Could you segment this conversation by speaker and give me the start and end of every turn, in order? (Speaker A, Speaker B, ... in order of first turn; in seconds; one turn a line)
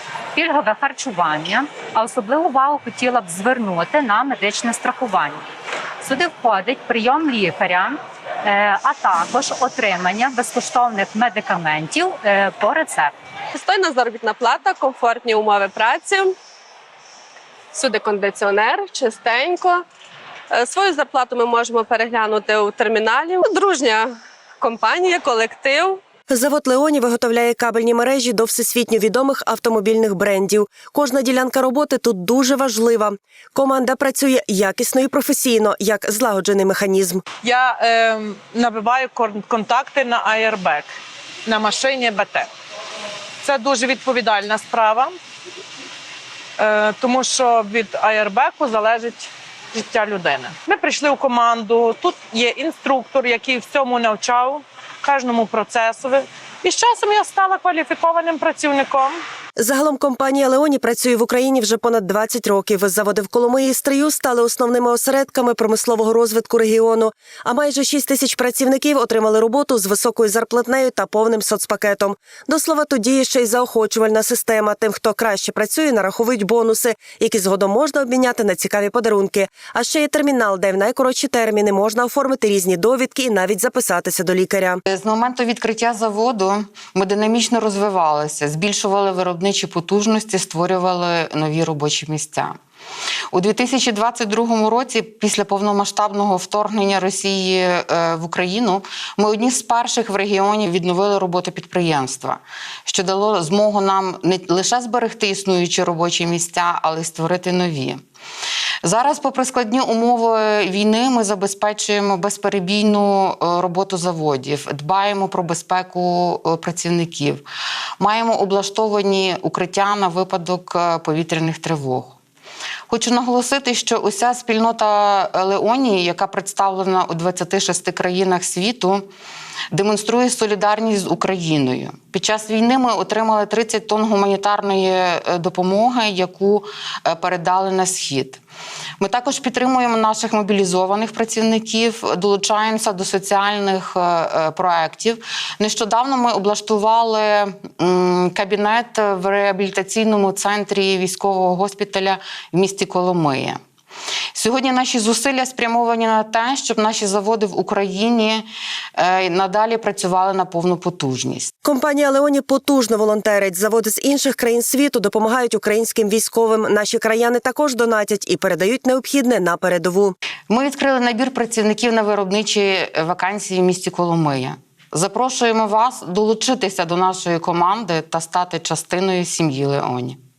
Speaker A: 0.3-5.4
Speaker A: 6.0-13.1
Speaker B: 13.5-16.4
Speaker B: 17.7-19.9
Speaker B: 20.5-26.0
Speaker C: 26.3-37.2
Speaker D: 37.4-40.9
Speaker D: 41.5-42.5
Speaker D: 43.4-45.1
Speaker D: 46.6-59.2
Speaker C: 59.6-84.8
Speaker E: 84.9-92.5
Speaker E: 93.3-108.0
Speaker E: 108.8-117.4
Speaker E: 118.0-122.2
Speaker E: 122.9-129.1
Speaker E: 129.7-138.4
Speaker E: 139.0-153.6
Speaker E: 154.3-158.4
Speaker E: 159.0-161.5
Speaker C: 161.6-170.1
Speaker E: 170.5-180.2